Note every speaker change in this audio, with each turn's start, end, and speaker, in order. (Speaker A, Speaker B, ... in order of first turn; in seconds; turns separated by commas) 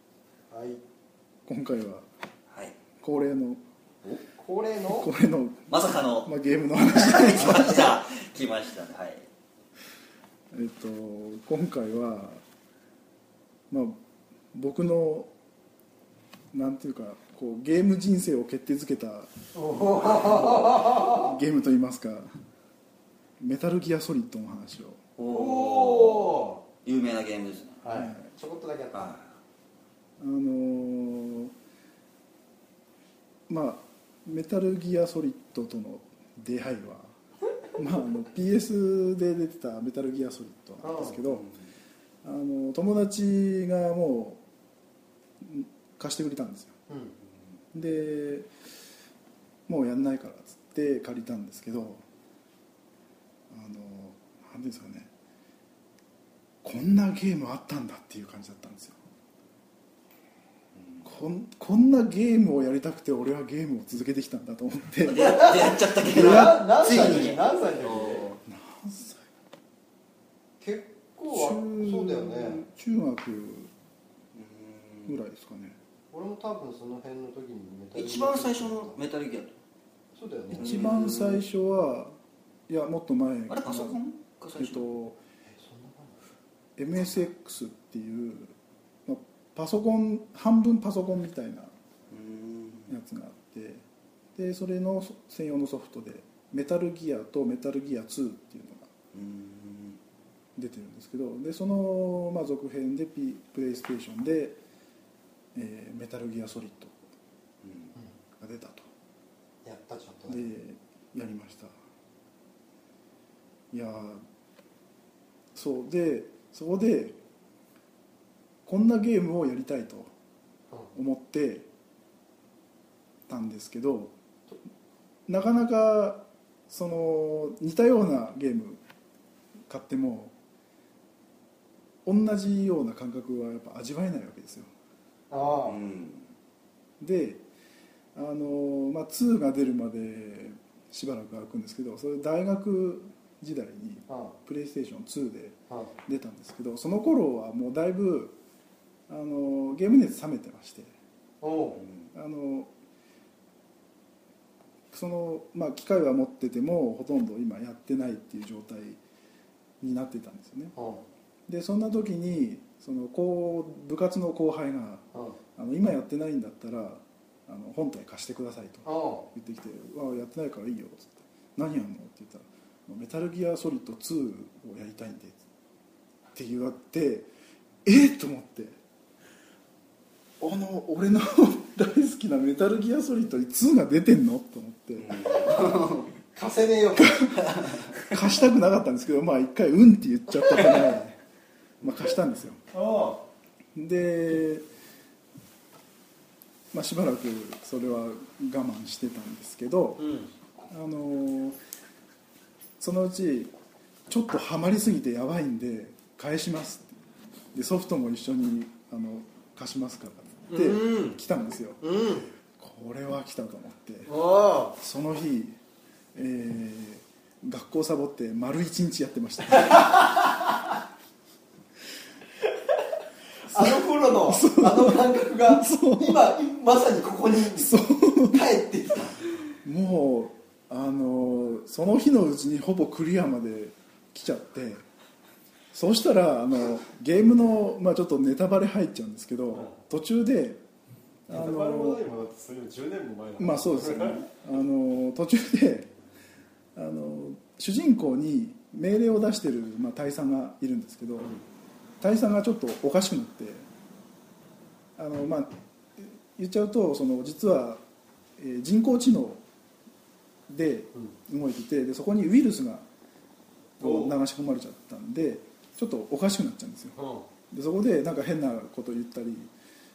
Speaker A: 0.5-0.8, Speaker B: 1.5-2.1, Speaker C: 2.5-2.8, Speaker B: 3.0-3.6, Speaker A: 4.0-5.1, Speaker B: 4.9-5.7, Speaker C: 5.7-6.3, Speaker B: 6.2-7.9, Speaker C: 6.9-9.3, Speaker B: 10.5-12.4, Speaker B: 13.7-14.0, Speaker B: 14.5-15.3, Speaker B: 16.5-19.3, Speaker A: 19.6-21.3, Speaker B: 19.9-22.3, Speaker B: 23.4-25.0, Speaker C: 25.2-26.3, Speaker A: 25.2-26.6, Speaker C: 26.8-27.8, Speaker A: 27.8-29.2, Speaker B: 27.9-28.3, Speaker C: 28.9-29.3, Speaker B: 30.2-31.5, Speaker B: 33.5-37.1, Speaker B: 37.8-41.5, Speaker A: 40.8-41.2, Speaker C: 41.3-41.6, Speaker B: 42.2-44.4, Speaker B: 45.4-46.8, Speaker A: 46.9-47.1, Speaker B: 47.7-48.5, Speaker B: 49.7-52.0, Speaker B: 53.5-55.1, Speaker B: 56.6-59.0, Speaker C: 60.8-61.0, Speaker B: 61.0-65.5, Speaker C: 65.1-68.3, Speaker A: 65.1-68.3, Speaker B: 66.0-67.0, Speaker B: 68.2-69.3, Speaker A: 70.6-72.6, Speaker B: 71.3-73.7, Speaker C: 74.3-75.1, Speaker B: 75.0-75.8, Speaker A: 76.1-79.0, Speaker C: 78.0-79.5, Speaker A: 80.1-80.9, Speaker C: 80.5-81.4, Speaker B: 80.6-82.2, Speaker B: 82.7-84.0, Speaker C: 83.5-84.9, Speaker B: 84.6-85.2, Speaker A: 85.5-86.2, Speaker B: 86.8-88.5, Speaker B: 89.1-91.7, Speaker C: 92.1-92.9, Speaker B: 92.9-93.8, Speaker B: 94.4-98.9, Speaker C: 99.1-100.0, Speaker B: 100.6-104.6, Speaker B: 105.5-107.0, Speaker C: 107.6-107.9, Speaker B: 108.4-108.9, Speaker A: 109.6-110.5, Speaker B: 110.3-111.7, Speaker B: 113.7-114.2, Speaker B: 115.5-117.2, Speaker B: 118.7-120.1, Speaker B: 120.9-121.7, Speaker B: 123.3-124.2, Speaker B: 125.3-128.8, Speaker B: 129.7-130.3, Speaker B: 132.1-134.7, Speaker A: 135.3-135.8, Speaker C: 135.7-136.3, Speaker B: 137.0-137.4, Speaker B: 138.2-148.4, Speaker A: 144.1-144.3, Speaker B: 149.1-150.9, Speaker A: 151.4-151.8, Speaker B: 152.1-152.7, Speaker B: 154.9-159.0, Speaker B: 159.8-160.7, Speaker A: 160.8-161.0, Speaker B: 161.5-175.4, Speaker A: 168.8-169.3, Speaker B: 176.3-177.3, Speaker B: 177.8-178.8, Speaker B: 180.4-185.4, Speaker C: 185.0-186.1, Speaker A: 186.3-187.3, Speaker B: 187.0-191.2, Speaker C: 187.4-187.9, Speaker B: 191.8-192.6, Speaker A: 192.7-193.2, Speaker B: 193.8-194.7, Speaker B: 196.7-200.2, Speaker B: 200.7-201.6, Speaker B: 202.8-203.5, Speaker B: 204.1-206.9, Speaker B: 207.5-211.8, Speaker A: 210.5-211.2, Speaker A: 211.8-212.3, Speaker B: 212.6-214.1, Speaker A: 214.1-214.8, Speaker B: 214.8-215.6, Speaker B: 216.2-219.9, Speaker A: 219.6-220.1, Speaker A: 223.5-229.4, Speaker B: 223.5-226.2, Speaker B: 227.6-228.4, Speaker B: 229.6-234.8, Speaker B: 235.7-240.6, Speaker B: 241.3-242.0, Speaker A: 241.3-244.2, Speaker B: 243.4-245.9, Speaker B: 246.8-251.3, Speaker B: 252.0-253.7, Speaker B: 255.0-257.8, Speaker B: 258.4-259.4, Speaker B: 260.5-262.9, Speaker B: 263.8-267.0, Speaker A: 263.8-264.2, Speaker A: 267.0-267.3, Speaker B: 267.5-269.5